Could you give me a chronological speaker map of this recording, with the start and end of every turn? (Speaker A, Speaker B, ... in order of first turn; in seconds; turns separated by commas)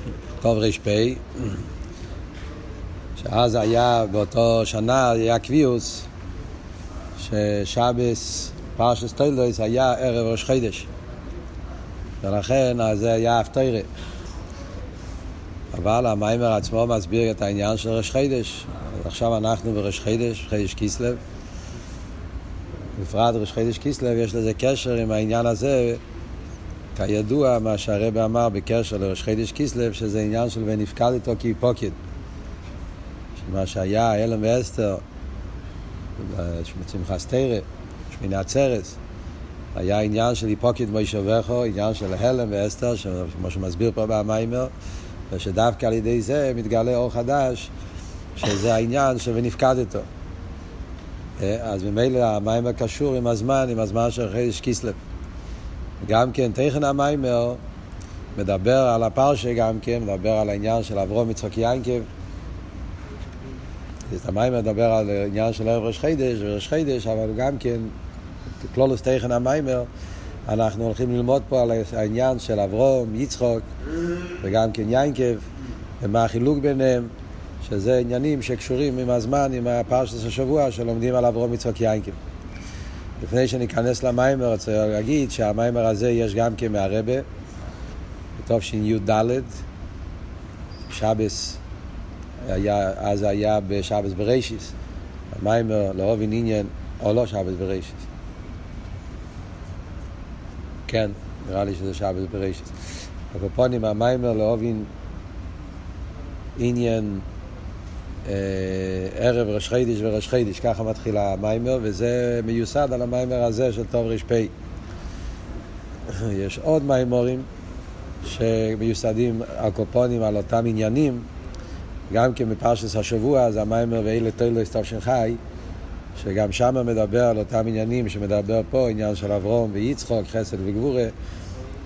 Speaker A: 0.4-1.5, Speaker A: 3.2-6.1, Speaker A: 7.2-10.9, Speaker A: 12.2-13.9, Speaker A: 15.7-21.2, Speaker A: 22.9-26.0, Speaker A: 26.9-31.9, Speaker A: 33.4-35.0, Speaker A: 36.2-39.0, Speaker A: 39.7-44.7, Speaker A: 45.3-47.7, Speaker A: 48.4-50.1, Speaker A: 51.4-55.0, Speaker A: 56.0-57.6, Speaker A: 58.4-62.1, Speaker A: 64.1-67.9, Speaker A: 68.6-69.9, Speaker A: 70.5-73.7, Speaker A: 74.4-75.4, Speaker A: 76.0-77.1, Speaker A: 77.6-82.2, Speaker A: 83.2-87.2, Speaker A: 88.4-89.5, Speaker A: 90.9-91.6, Speaker A: 92.4-94.7, Speaker A: 95.3-98.0, Speaker A: 100.9-102.7, Speaker A: 103.3-104.9, Speaker A: 106.6-107.2, Speaker A: 108.2-114.5, Speaker A: 116.1-117.5, Speaker A: 118.2-121.2, Speaker A: 122.1-125.4, Speaker A: 126.2-131.1